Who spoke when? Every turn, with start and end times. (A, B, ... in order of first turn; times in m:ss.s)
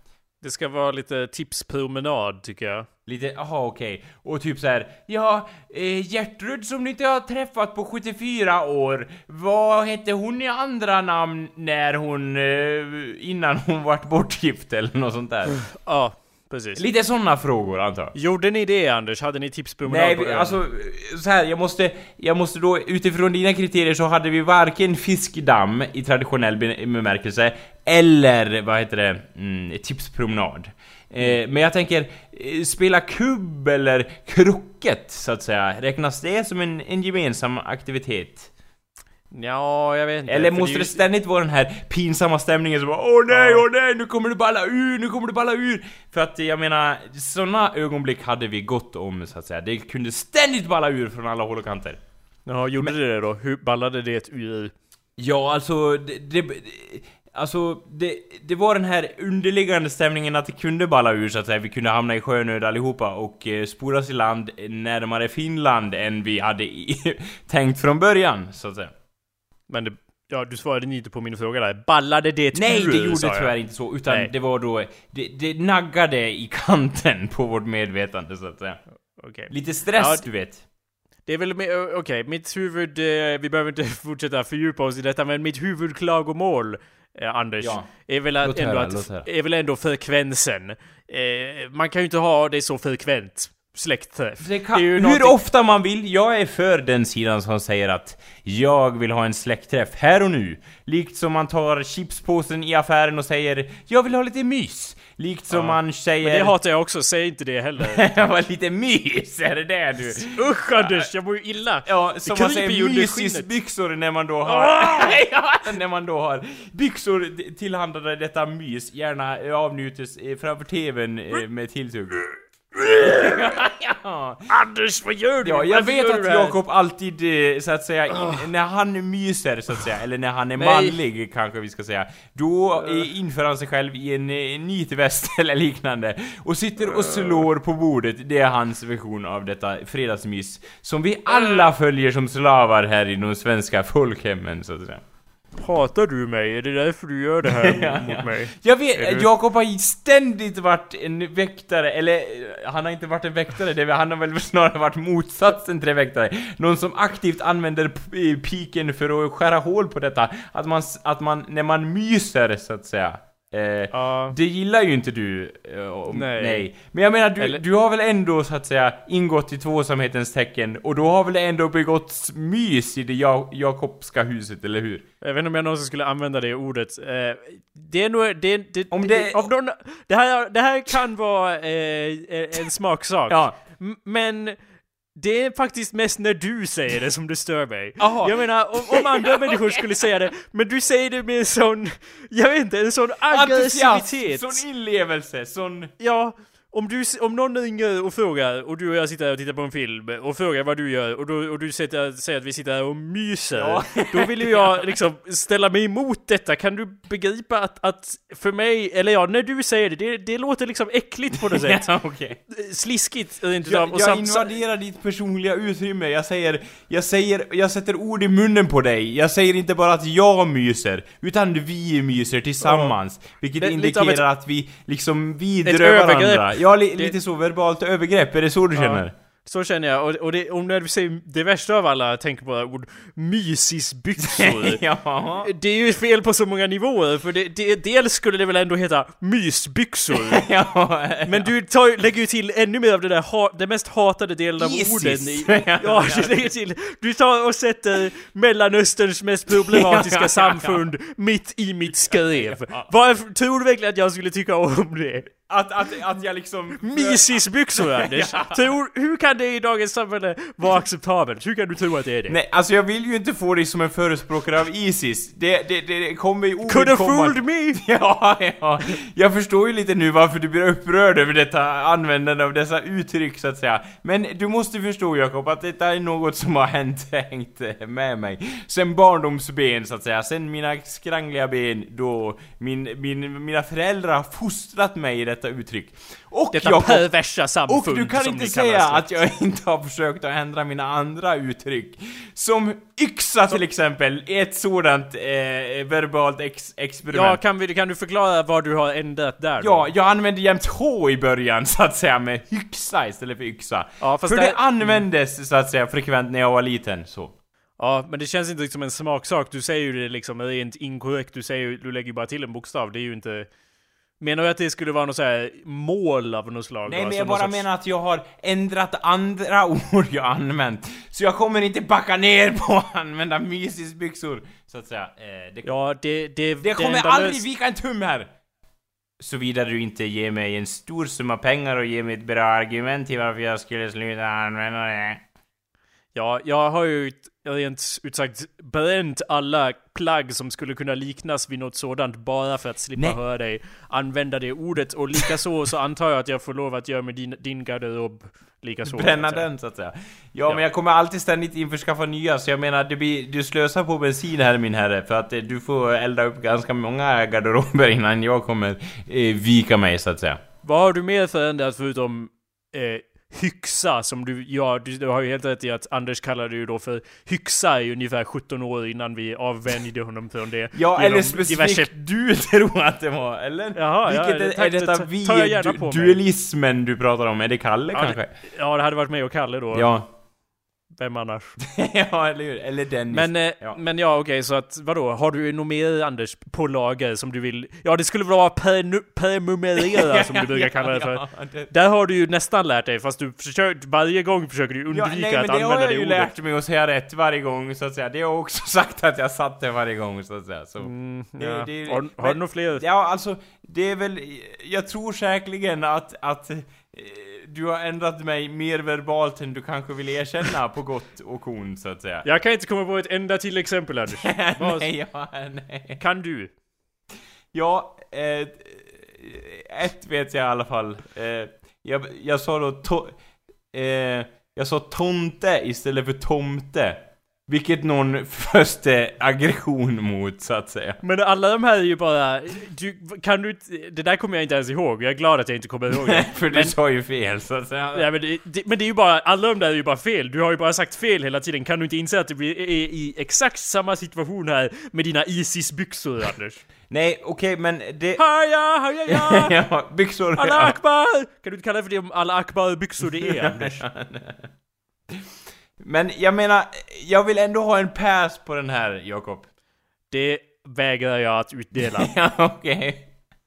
0:00.4-0:02.9 A
0:03.1-0:15.6 B
0:15.8-0:16.8 A
0:16.8-0:18.1 B
0:18.1-0:20.6 A
0:19.8-0:38.5 B
0:39.3-0:41.0 A
0:40.3-0:52.0 B
0:43.3-0:43.6 A
0:52.5-0:54.7 A
0:55.2-1:08.9 B
1:09.7-1:13.5 A
1:12.5-1:18.8 B
1:19.2-1:20.3 A
1:19.5-1:20.6 B
1:21.2-1:35.4 A
1:27.6-1:27.9 B
1:28.4-1:29.3 B
1:34.4-1:46.6 B
1:45.5-1:48.0 A
1:47.9-1:51.1 B
1:50.3-1:53.5 A
1:51.8-2:02.2 B
1:54.5-1:55.2 A
2:02.8-2:04.5 B
2:04.5-2:06.6 A
2:05.4-2:25.0 B
2:08.1-2:08.4 A
2:10.6-2:11.0 A
2:12.8-2:13.0 A
2:16.9-2:17.4 A
2:21.3-2:21.6 A
2:25.6-2:29.3 A
2:27.5-2:55.0 B
2:43.9-2:44.4 A
2:46.1-2:46.7 A
2:55.2-3:04.6 A
2:58.9-2:59.5 B
3:03.3-3:03.6 B
3:05.2-3:14.6 A
3:08.0-3:10.0 B
3:13.3-3:15.9 B
3:16.0-3:31.9 A
3:23.6-3:24.9 B
3:31.4-3:32.4 B
3:32.5-3:34.5 A
3:33.7-3:49.1 B
3:42.6-3:42.9 A
3:43.6-3:44.2 A
3:45.6-3:47.2 A
3:48.8-3:54.8 A
3:54.2-3:55.5 B
3:55.4-4:00.4 A
4:00.2-4:01.5 B
4:01.3-4:15.3 A
4:04.6-4:06.5 B
4:09.5-4:10.8 B
4:12.0-4:12.9 B
4:15.5-4:18.7 B
4:16.8-4:22.4 A
4:22.3-4:57.4 B
4:26.7-4:27.8 A
4:46.5-4:49.1 A
4:57.1-4:59.8 A
4:59.6-5:07.4 B
5:04.0-5:05.0 A
5:07.8-5:13.5 A
5:14.2-5:17.6 A
5:16.9-5:25.7 B
5:25.6-5:27.4 A
5:26.6-5:28.3 B
5:29.2-5:35.2 B
5:36.1-5:49.5 A
5:48.9-6:00.4 B
6:00.6-6:11.9 A
6:10.7-6:18.3 B
6:13.8-6:16.2 A
6:17.9-6:19.9 A
6:19.7-6:20.1 B
6:21.0-6:21.6 A
6:21.6-6:23.8 B
6:23.1-6:36.3 A
6:29.8-6:31.7 B
6:34.9-6:52.3 B
6:40.8-6:42.8 A
6:52.2-6:54.9 A
6:54.2-6:56.0 B
6:56.0-6:56.5 A
6:57.5-7:03.2 B
7:03.7-7:11.0 B
7:11.0-7:16.8 A
7:15.9-7:18.1 B
7:18.0-7:26.6 A
7:26.9-7:28.2 B
7:28.2-7:29.6 A
7:29.1-7:30.8 B
7:30.4-7:33.8 A
7:33.1-7:34.5 B
7:35.8-7:39.5 B
7:40.1-7:42.1 A
7:42.0-7:43.1 B